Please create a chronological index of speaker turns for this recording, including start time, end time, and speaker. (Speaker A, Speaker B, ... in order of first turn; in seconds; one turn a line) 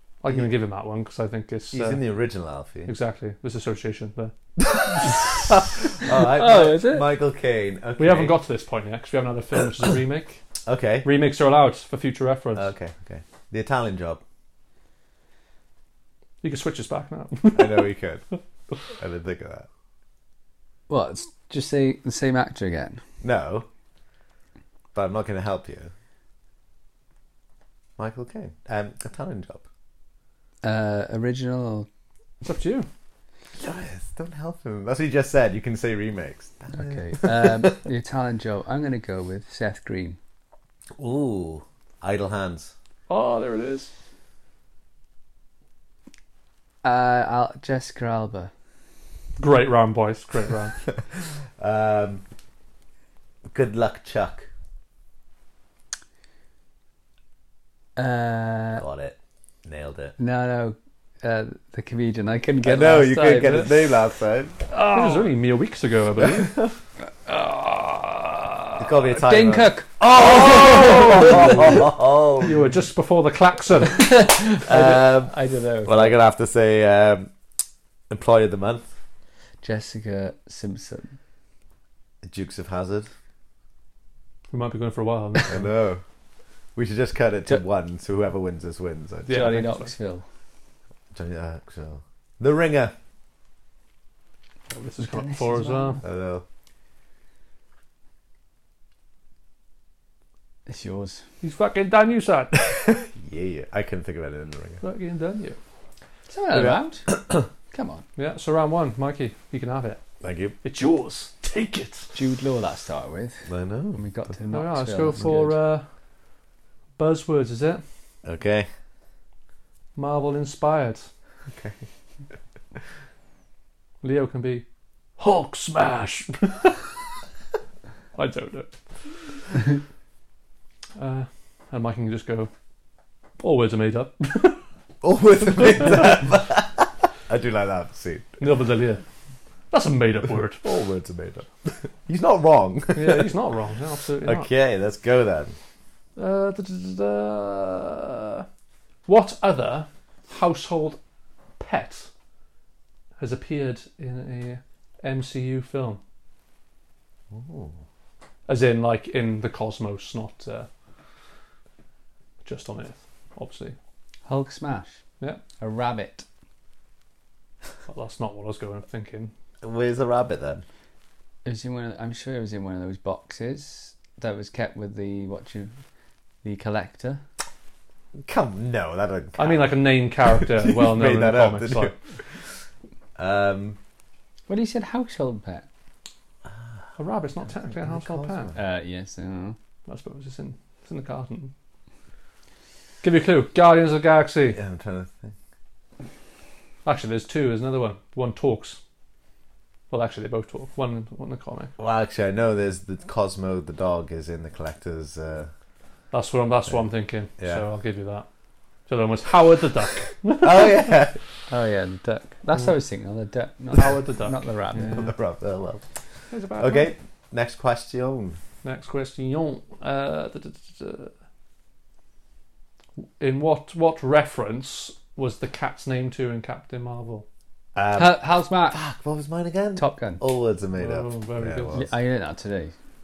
Speaker A: 0.2-2.0
Speaker B: 1.7-2.9
Speaker A: 2.9-4.3
Speaker B: 4.6-8.3
Speaker C: 6.2-7.1
Speaker A: 8.0-10.4
Speaker B: 10.7-11.1
Speaker A: 11.0-12.7
Speaker B: 12.6-14.2
Speaker A: 16.4-17.9
Speaker B: 17.6-18.2
Speaker B: 18.9-19.7
Speaker C: 20.9-23.0
Speaker B: 23.2-23.7
Speaker B: 24.9-25.9
Speaker B: 28.0-29.7
Speaker C: 30.6-31.9
Speaker A: 32.4-32.9
Speaker B: 33.6-37.8
Speaker C: 36.7-40.2
Speaker B: 41.0-42.7
Speaker A: 43.1-43.9
Speaker C: 46.8-48.5
Speaker A: 49.4-50.8
Speaker B: 51.6-52.2
Speaker B: 53.5-54.5
Speaker C: 58.0-58.8
Speaker B: 58.8-60.1
Speaker C: 60.2-63.7
Speaker B: 62.6-64.6
Speaker A: 64.7-66.7
Speaker B: 66.2-66.7
Speaker C: 67.5-68.0
Speaker B: 68.8-72.6
Speaker C: 69.1-71.7
Speaker A: 70.0-71.9
Speaker A: 72.4-74.1
Speaker C: 73.9-76.2
Speaker B: 74.7-77.3
Speaker B: 78.1-78.9
Speaker C: 79.6-81.2
Speaker B: 82.2-83.1
Speaker A: 84.5-85.7
Speaker B: 85.5-86.0
Speaker B: 86.8-89.5
Speaker A: 89.3-89.9
Speaker C: 89.3-90.3
Speaker B: 91.1-92.9
Speaker A: 94.7-96.0
Speaker C: 95.0-96.0
Speaker B: 96.0-96.5
Speaker C: 100.7-101.2
Speaker A: 101.4-102.6
Speaker B: 102.7-104.8
Speaker A: 104.8-105.6
Speaker C: 106.3-107.1
Speaker B: 106.5-107.5
Speaker C: 107.7-108.0
Speaker A: 108.2-110.0
Speaker B: 110.2-110.6
Speaker A: 110.6-112.1
Speaker C: 112.1-115.6
Speaker B: 113.5-114.3
Speaker A: 114.5-115.9
Speaker A: 117.0-117.8
Speaker B: 118.2-118.7
Speaker A: 120.0-121.1
Speaker B: 121.5-121.8
Speaker A: 124.0-124.7
Speaker A: 125.2-127.0
Speaker A: 128.1-129.4
Speaker A: 131.0-132.5
Speaker A: 133.4-134.6
Speaker B: 135.0-138.4
Speaker A: 138.4-139.0
Speaker A: 139.7-140.6
Speaker B: 140.6-143.3
Speaker A: 142.9-144.5
Speaker B: 144.2-145.6
Speaker A: 146.2-148.5
Speaker A: 149.1-151.0
Speaker A: 151.6-152.1
Speaker A: 153.2-156.0
Speaker B: 157.3-157.8
Speaker A: 158.5-160.7
Speaker A: 162.4-163.8
Speaker C: 164.3-165.0
Speaker C: 165.6-166.3
Speaker A: 167.9-169.3
Speaker B: 169.6-170.6
Speaker C: 171.4-175.8
Speaker C: 176.4-177.2
Speaker B: 178.2-182.6
Speaker A: 179.4-181.9
Speaker B: 183.2-183.8
Speaker C: 184.5-185.7
Speaker B: 186.5-186.7
Speaker A: 187.0-188.5
Speaker B: 187.7-188.6
Speaker C: 188.6-189.6
Speaker A: 189.9-191.5
Speaker A: 193.0-194.6
Speaker B: 194.5-195.3
Speaker A: 196.9-198.8
Speaker A: 199.9-201.7
Speaker B: 201.8-205.5
Speaker A: 206.1-208.3
Speaker B: 207.4-207.6
Speaker A: 208.9-210.9
Speaker B: 210.4-211.2
Speaker C: 211.5-215.1
Speaker A: 213.7-215.1
Speaker B: 214.8-215.8
Speaker A: 216.3-216.9
Speaker B: 216.6-218.4
Speaker A: 218.6-221.1
Speaker A: 223.2-227.2
Speaker B: 227.8-231.9
Speaker C: 228.0-228.8
Speaker C: 229.8-230.2
Speaker A: 230.8-231.8
Speaker C: 231.7-232.7